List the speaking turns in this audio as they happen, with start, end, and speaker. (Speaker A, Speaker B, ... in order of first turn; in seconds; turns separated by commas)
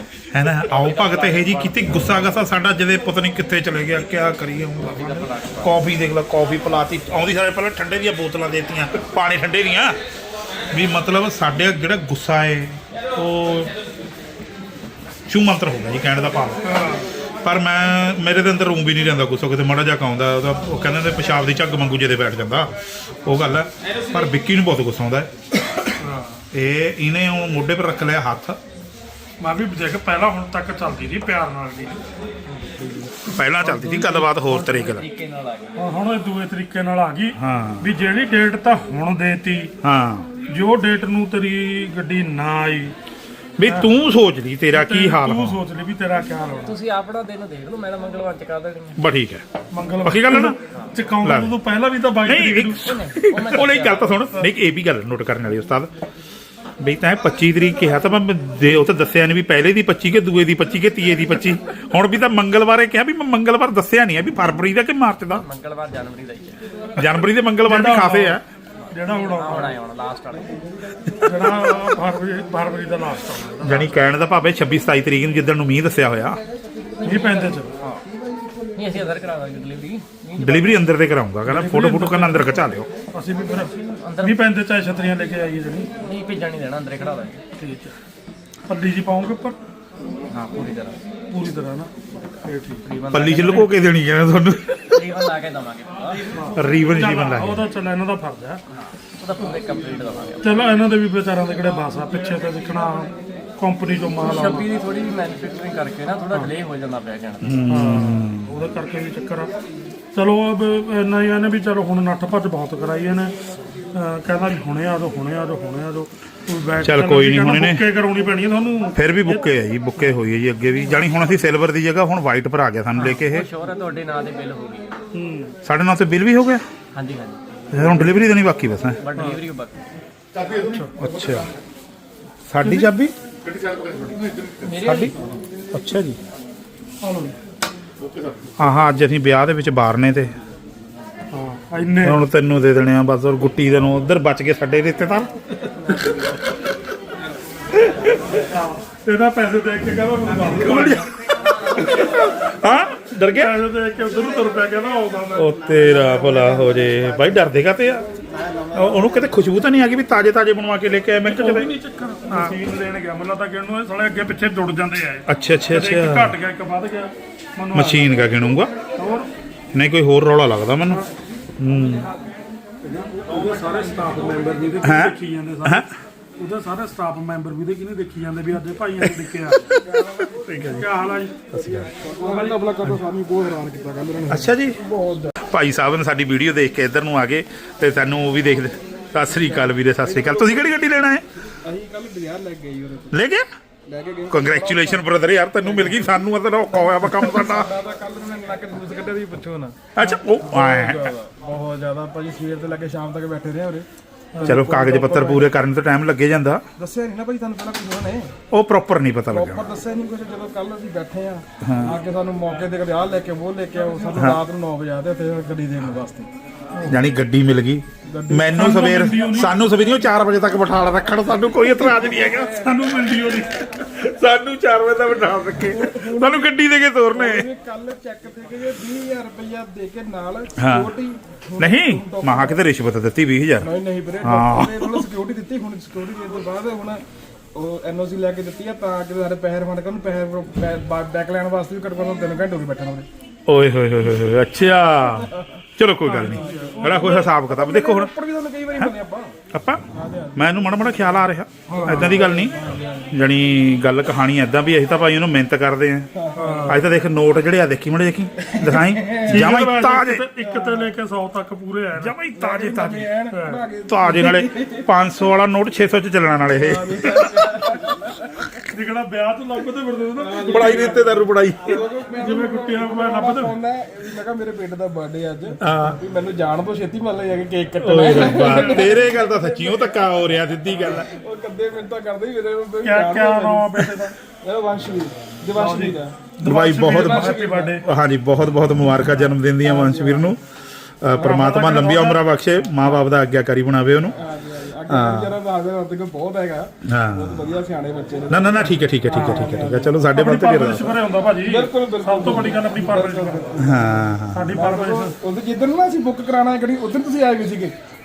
Speaker A: 0.3-10.0, Speaker B: 0.6-2.2, Speaker B: 4.8-5.8, Speaker A: 10.7-13.7, Speaker A: 15.3-16.7, Speaker C: 16.6-17.1, Speaker A: 17.4-22.7, Speaker A: 23.2-25.3, Speaker C: 26.0-26.4, Speaker A: 26.5-28.6, Speaker C: 29.4-32.0, Speaker A: 33.0-35.0, Speaker C: 33.6-34.7, Speaker B: 34.1-35.8, Speaker C: 35.8-39.7, Speaker A: 37.4-37.9, Speaker A: 39.8-40.3, Speaker C: 40.4-43.0, Speaker A: 43.6-45.6, Speaker C: 43.6-44.0, Speaker C: 44.7-46.8, Speaker B: 46.6-49.0, Speaker A: 49.0-49.4, Speaker C: 49.7-52.9, Speaker A: 50.0-50.5, Speaker A: 51.2-51.5, Speaker A: 52.2-55.9, Speaker B: 52.8-54.3, Speaker A: 56.8-65.4, Speaker B: 65.3-66.6, Speaker A: 67.0-68.4, Speaker C: 67.6-68.4, Speaker C: 68.9-69.8, Speaker B: 69.0-70.6, Speaker C: 71.2-74.1, Speaker A: 73.6-76.4, Speaker B: 77.0-78.0, Speaker C: 77.0-77.7, Speaker B: 78.7-80.9, Speaker A: 80.4-82.9, Speaker C: 81.4-85.9, Speaker B: 83.9-84.4, Speaker B: 86.0-87.4, Speaker C: 87.5-88.0, Speaker C: 88.7-89.6, Speaker B: 90.3-91.0, Speaker C: 91.3-91.9, Speaker C: 92.4-92.8, Speaker B: 92.8-93.7, Speaker A: 93.1-95.0, Speaker B: 94.9-96.3, Speaker C: 96.3-98.6, Speaker A: 96.5-97.7, Speaker B: 98.8-100.5, Speaker C: 100.4-104.7, Speaker B: 104.2-107.5, Speaker A: 107.4-108.5, Speaker C: 107.7-109.5, Speaker C: 110.1-113.3, Speaker C: 113.9-119.5, Speaker A: 116.8-117.8, Speaker A: 118.9-123.5, Speaker B: 122.9-124.9, Speaker C: 125.1-125.5, Speaker A: 125.6-126.6, Speaker B: 126.9-127.4, Speaker A: 127.7-129.0, Speaker B: 129.0-129.8, Speaker C: 129.2-129.4, Speaker C: 130.5-130.9, Speaker A: 131.0-131.5, Speaker A: 132.5-133.1, Speaker C: 132.6-132.9, Speaker B: 134.6-135.2, Speaker A: 134.8-135.1, Speaker A: 135.7-136.2, Speaker C: 137.0-137.4, Speaker A: 138.6-140.3, Speaker C: 141.3-142.2, Speaker A: 142.0-145.3, Speaker A: 147.8-148.2, Speaker C: 148.4-151.1, Speaker A: 150.6-153.5, Speaker C: 153.3-156.1, Speaker A: 155.3-158.1, Speaker A: 158.7-161.7, Speaker C: 161.2-168.2, Speaker A: 165.2-166.3, Speaker A: 167.7-168.7, Speaker C: 168.9-169.3, Speaker A: 169.7-171.0, Speaker A: 171.6-172.1, Speaker C: 172.8-175.8, Speaker A: 174.8-175.9, Speaker C: 176.4-179.8, Speaker A: 179.9-180.9, Speaker C: 180.6-182.9, Speaker A: 181.5-181.9, Speaker D: 182.0-185.3, Speaker A: 184.3-184.8, Speaker A: 185.4-191.2, Speaker D: 190.0-190.7, Speaker D: 191.6-193.1, Speaker A: 193.1-193.4, Speaker D: 193.9-195.1, Speaker A: 194.3-197.7, Speaker D: 195.6-196.0, Speaker D: 196.7-203.8, Speaker A: 199.9-201.1, Speaker C: 204.3-204.9, Speaker D: 204.4-205.5, Speaker A: 204.4-206.6, Speaker D: 206.8-208.3, Speaker A: 208.5-209.7, Speaker D: 209.3-216.3, Speaker A: 211.6-211.9, Speaker C: 216.7-217.0, Speaker A: 216.8-227.5, Speaker D: 218.1-219.1, Speaker C: 218.5-219.5, Speaker D: 221.9-222.5, Speaker C: 222.6-223.6, Speaker D: 225.7-226.6, Speaker D: 227.1-232.6, Speaker A: 230.6-230.9, Speaker A: 231.6-233.7, Speaker D: 233.6-237.0, Speaker A: 234.2-235.0, Speaker D: 237.5-243.1, Speaker A: 243.5-248.1, Speaker D: 245.1-245.4, Speaker C: 246.0-247.2, Speaker D: 246.3-249.3, Speaker A: 249.5-249.8, Speaker D: 249.9-251.2, Speaker A: 250.3-256.1, Speaker C: 251.7-252.2, Speaker D: 251.8-253.1, Speaker D: 256.1-256.6, Speaker C: 256.4-256.9, Speaker A: 256.6-260.2, Speaker D: 258.5-259.5, Speaker C: 259.2-263.6, Speaker D: 260.5-260.9, Speaker A: 262.0-263.1, Speaker D: 262.4-264.9, Speaker A: 263.9-267.6, Speaker D: 266.5-268.2, Speaker C: 268.6-271.1, Speaker D: 270.2-283.8, Speaker A: 270.4-271.8, Speaker C: 272.1-273.6, Speaker A: 275.6-276.0, Speaker A: 277.8-281.1, Speaker C: 278.0-279.0, Speaker C: 282.8-284.2, Speaker D: 284.4-286.3, Speaker C: 285.5-287.8, Speaker A: 286.4-290.4, Speaker D: 286.9-287.8, Speaker D: 289.6-290.3, Speaker A: 291.0-294.1, Speaker C: 291.2-292.2, Speaker D: 294.1-300.1, Speaker A: 294.9-295.4, Speaker A: 296.8-297.5, Speaker A: 298.3-300.9, Speaker C: 299.1-299.5, Speaker C: 300.1-303.7, Speaker D: 301.4-307.7, Speaker A: 303.6-304.5, Speaker C: 304.3-305.2